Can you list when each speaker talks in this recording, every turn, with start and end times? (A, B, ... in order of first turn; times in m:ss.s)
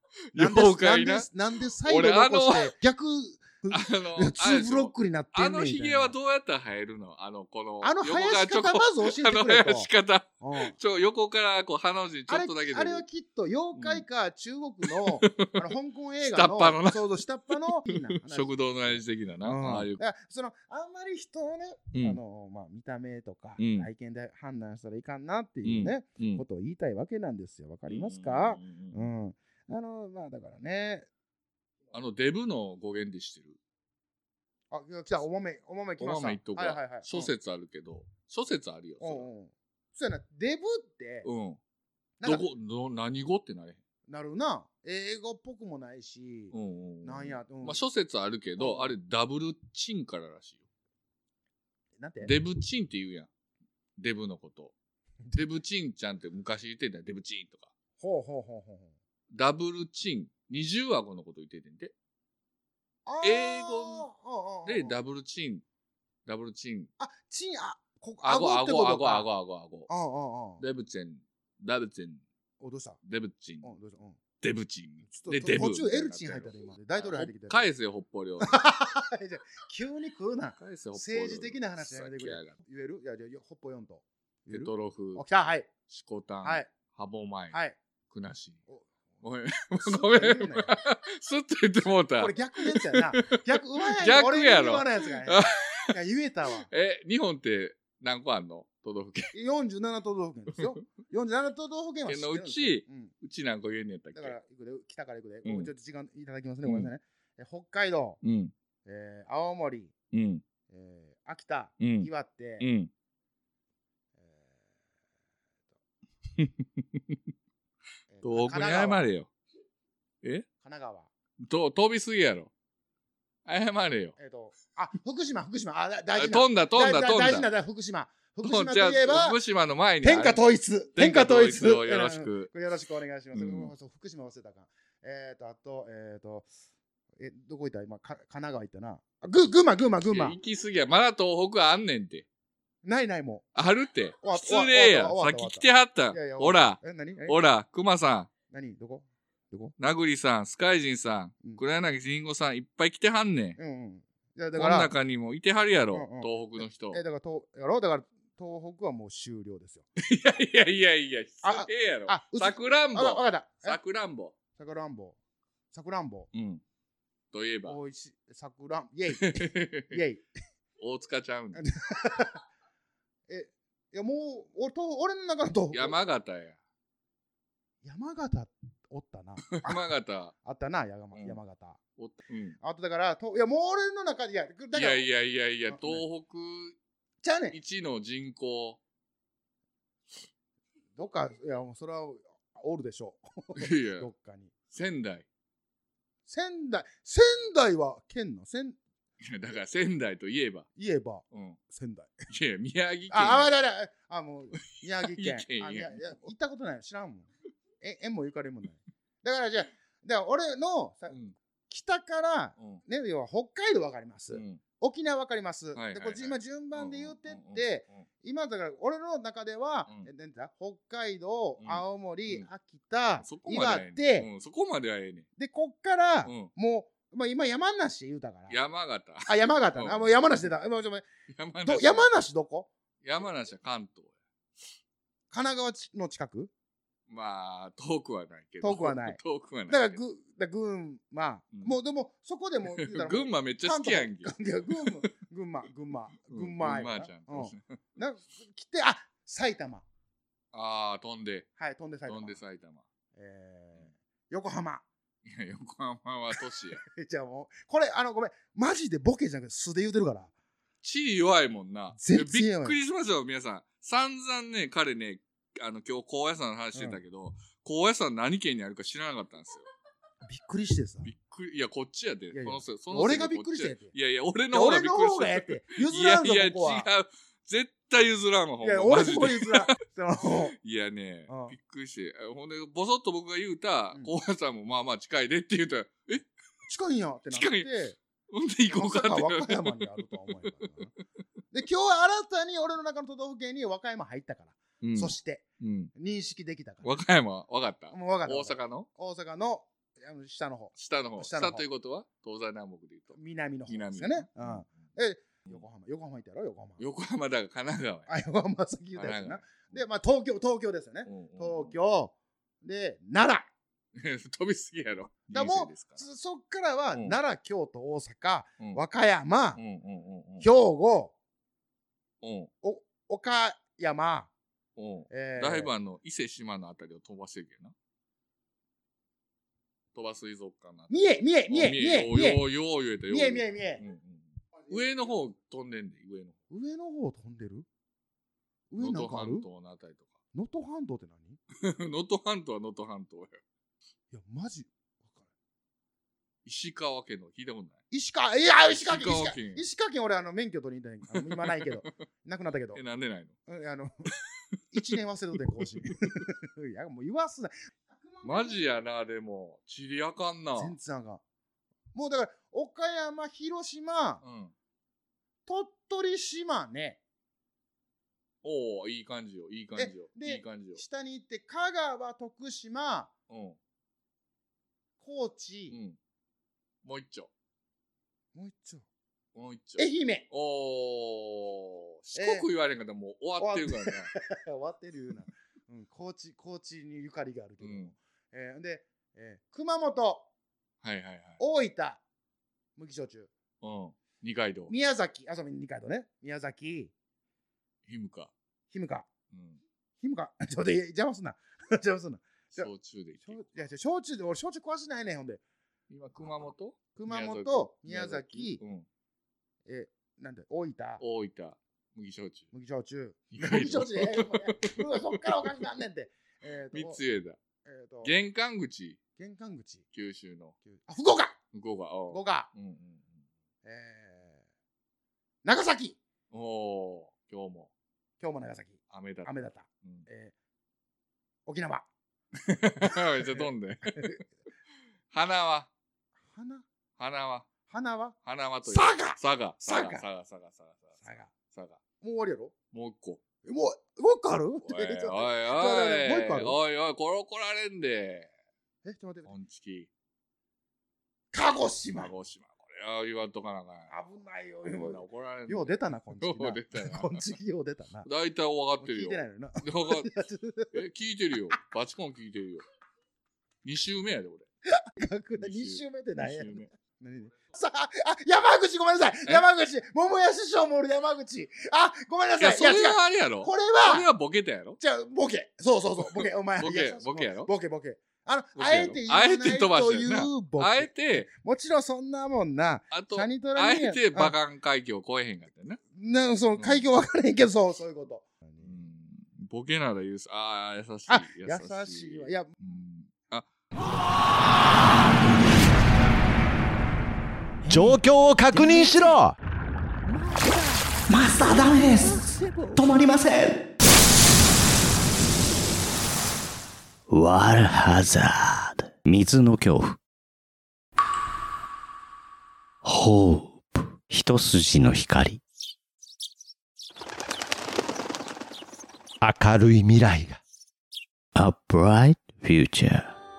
0:00.3-0:01.3 A
0:00.3-0:06.1 B
0:01.8-0:02.7 A
0:03.7-0:13.0 A
0:07.8-0:09.9 B
0:10.4-0:10.8 B
0:12.3-0:31.1 B
0:13.8-0:14.0 A
0:14.8-0:15.7 A
0:16.2-0:20.0 A
0:21.9-0:22.2 A
0:23.6-0:23.9 A
0:25.6-0:26.4 A
0:27.9-0:29.1 A
0:31.9-0:33.6 A
0:34.7-0:37.3 B
0:36.0-0:39.3 A
0:39.0-0:41.3 B
0:41.2-0:41.6 A
0:42.2-0:42.5 B
0:42.2-0:43.8 A
0:44.1-0:47.8 B
0:46.5-0:50.6 A
0:48.6-0:48.9 B
0:52.0-0:52.3 B
0:52.2-0:53.3 A
0:54.0-0:54.7 A
0:55.3-0:57.7 A
0:58.0-0:58.9 B
0:59.3-1:01.9 A
1:03.0-1:05.0 B
1:03.2-1:04.1 A
1:04.6-1:05.6 A
1:06.2-1:06.9 A
1:07.0-1:09.3 B
1:08.2-1:09.9 A
1:09.9-1:10.6 B
1:10.6-1:12.2 A
1:12.6-1:13.0 B
1:13.0-1:13.7 A
1:13.6-1:14.2 B
1:14.4-1:18.6 A
1:15.0-1:17.6 B
1:18.4-1:25.7 B
1:20.6-1:22.5 A
1:24.5-1:25.2 A
1:25.9-1:27.6 A
1:26.4-1:26.7 B
1:27.5-1:27.8 B
1:28.1-1:28.6 A
1:29.2-1:36.0 A
1:29.7-1:30.8 B
1:32.1-1:36.7 B
1:36.7-1:39.3 A
1:39.3-1:43.1 B
1:42.1-1:44.4 A
1:44.1-1:48.2 B
1:45.4-1:45.7 A
1:46.6-1:46.9 A
1:48.2-1:48.5 A
1:48.8-1:49.9 B
1:50.1-1:50.4 A
1:50.7-1:52.7 B
1:51.8-1:52.1 A
1:52.6-1:52.9 A
1:54.2-1:54.5 B
1:56.4-1:57.2 A
1:58.1-1:59.0 B
1:58.2-1:59.3 A
2:00.6-2:01.1 B
2:01.4-2:02.5 A
2:03.4-2:04.2 A
2:04.2-2:09.4 B
2:06.2-2:07.5 A
2:08.4-2:10.4 A
2:10.0-2:16.5 B
2:10.9-2:12.5 A
2:13.3-2:13.7 A
2:17.2-2:20.4 B
2:20.1-2:22.2 A
2:22.8-2:23.4 B
2:23.5-2:28.3 A
2:24.2-2:27.4 B
2:28.5-2:29.7 B
2:29.8-2:33.6 A
2:33.6-2:34.9 B
2:34.5-2:37.0 A
2:35.9-2:36.3 B
2:36.8-2:39.8 B
2:40.0-2:44.3 A
2:41.4-2:43.8 B
2:44.6-2:45.2 B
2:45.7-2:46.3 B
2:46.3-2:46.6 A
2:47.3-2:47.8 A
2:47.6-2:50.2 B
2:49.1-2:50.0 A
2:50.8-2:51.6 A
2:51.5-2:52.4 B
2:53.3-2:56.0 B
2:55.7-2:56.6 A
2:57.8-2:59.8 B
2:59.5-3:00.3 A
3:00.4-3:01.8 B
3:01.1-3:01.4 A
3:02.0-3:02.6 A
3:02.6-3:05.1 B
3:04.7-3:06.8 A
3:05.7-3:06.0 B
3:07.2-3:07.6 B
3:07.5-3:08.8 A
3:11.0-3:14.5 B
3:13.6-3:14.1 A
3:14.7-3:15.2 A
3:16.3-3:18.8 B
3:19.2-3:20.7 A
3:20.8-3:22.2 B
3:21.3-3:21.6 A
3:22.3-3:23.5 A
3:23.1-3:27.3 B
3:25.0-3:26.3 A
3:27.8-3:31.2 B
3:31.1-3:31.4 A
3:31.7-3:44.3 B
3:34.3-3:34.6 A
3:35.7-3:38.0 A
3:41.6-3:42.5 A
3:43.2-3:45.3 A
3:45.4-3:48.6 B
3:46.2-3:46.5 A
3:48.5-3:50.4 A
3:49.2-3:51.0 B
3:51.3-3:52.1 A
3:51.6-3:52.7 B
3:53.0-3:54.1 A
3:55.3-3:56.5 B
3:57.1-4:00.0 A
3:58.6-4:09.8 B
4:02.6-4:05.1 A
4:06.3-4:07.8 A
4:10.5-4:11.5 A
4:11.6-4:12.4 B
4:12.0-4:12.8 A
4:13.2-4:14.8 B
4:15.2-4:16.8 A
4:16.3-4:20.3 B
4:20.8-4:29.6 A
4:21.9-4:22.8 B
4:26.7-4:27.0 B
4:30.2-4:31.1 B
4:31.0-4:39.7 A
4:32.3-4:33.9 B
4:34.5-4:36.9 B
4:38.6-4:40.5 B
4:40.5-4:46.2 A
4:41.3-4:41.6 B
4:46.6-4:48.0 B
4:47.3-4:47.7 A
4:48.3-4:50.6 A
4:48.7-4:50.9 B
4:51.5-4:55.4 B
4:54.8-4:55.9 A
4:55.9-4:56.9 B
4:56.8-4:58.9 A
4:57.9-5:01.6 B
5:00.7-5:04.8 A
5:03.1-5:06.8 B
5:06.8-5:08.1 A
5:08.1-5:13.4 B
5:09.0-5:09.8 A
5:11.0-5:11.8 A
5:13.9-5:16.0 A
5:15.3-5:19.6 B
5:19.5-5:20.4 A
5:20.4-5:21.1 B
5:22.2-5:22.5 A
5:22.6-5:24.3 B
5:24.8-5:27.7 A
5:25.1-5:25.7 B
5:29.9-5:36.4 A
5:30.9-5:32.4 B
5:33.1-5:33.8 B
5:36.5-5:37.6 B
5:38.7-5:39.5 B
5:38.8-5:40.1 A
5:40.3-5:41.4 B
5:41.6-5:43.4 A
5:44.1-5:45.2 B
5:46.4-5:47.8 A
5:47.9-5:52.8 B
5:48.7-5:49.6 A
5:51.1-5:51.9 A
5:52.7-5:53.3 A
5:53.5-5:54.1 B
5:54.7-5:58.8 B
5:55.8-5:56.2 A
5:58.2-6:00.8 A
6:00.6-6:01.2 B
6:01.9-6:04.2 B
6:04.2-6:04.5 A
6:05.4-6:07.0 B
6:08.4-6:10.8 A
6:09.8-6:13.1 B
6:13.3-6:13.6 A
6:15.0-6:15.8 B
6:15.7-6:16.0 A
6:16.8-6:17.3 A
6:18.3-6:18.8 B
6:19.3-6:24.1 A
6:19.8-6:20.2 B
6:22.1-6:22.5 B
6:23.4-6:30.3 B
6:27.6-6:27.9 A
6:30.8-6:31.4 A
6:31.4-6:32.0 B
6:32.8-6:33.3 B
6:33.6-6:34.7 A
6:34.7-6:36.9 B
6:37.8-6:38.3 A
6:38.7-6:39.1 B
6:39.3-6:39.6 A
6:40.0-6:42.7 B
6:42.5-6:43.4 A
6:43.2-6:45.4 B
6:45.9-6:48.8 A
6:47.0-6:48.6 B
6:49.6-6:51.0 B
6:51.0-6:52.5 A
6:52.5-6:57.0 B
6:53.3-6:55.6 A
6:56.7-6:57.4 A
6:57.6-6:58.1 B
6:58.0-6:59.0 A
6:59.2-6:59.8 B
6:59.9-7:00.5 A
7:00.6-7:01.4 B
7:01.5-7:03.1 A
7:02.1-7:02.5 B
7:03.6-7:04.4 B
7:05.4-7:06.0 B
7:06.3-7:07.7 A
7:08.2-7:10.3 B
7:08.9-7:10.0 A
7:11.4-7:11.8 B
7:12.4-7:14.2 A
7:12.8-7:14.2 B
7:15.1-7:15.7 A
7:16.3-7:16.6 B
7:17.0-7:17.5 A
7:17.7-7:20.0 B
7:18.2-7:21.8 A
7:21.0-7:21.3 B
7:22.0-7:22.5 B
7:22.7-7:23.2 A
7:23.4-7:26.5 B
7:24.6-7:28.3 A
7:28.8-7:29.3 B
7:29.2-7:29.9 A
7:31.3-7:32.1 B
7:31.9-7:33.9 A
7:33.9-7:38.1 B
7:34.6-7:37.2 A
7:38.0-7:40.1 A
7:38.8-7:40.7 B
7:40.7-7:42.6 A
7:43.6-7:44.5 A
7:44.7-7:54.1 B
7:45.4-7:46.7 A
7:52.4-7:54.8 A
7:54.8-8:04.3 B
7:56.0-7:57.5 A
7:58.6-8:01.3 A
8:02.9-8:05.8 A
8:05.9-8:08.8 B
8:06.6-8:06.8 A
8:08.6-8:13.5 A
8:11.1-8:12.5 B
8:17.7-8:19.4 C
8:21.1-8:22.2 D
8:22.8-8:23.7 D
8:27.1-8:30.0 E
8:32.8-8:35.4 E
8:39.2-8:40.4 C
8:41.3-8:43.1 E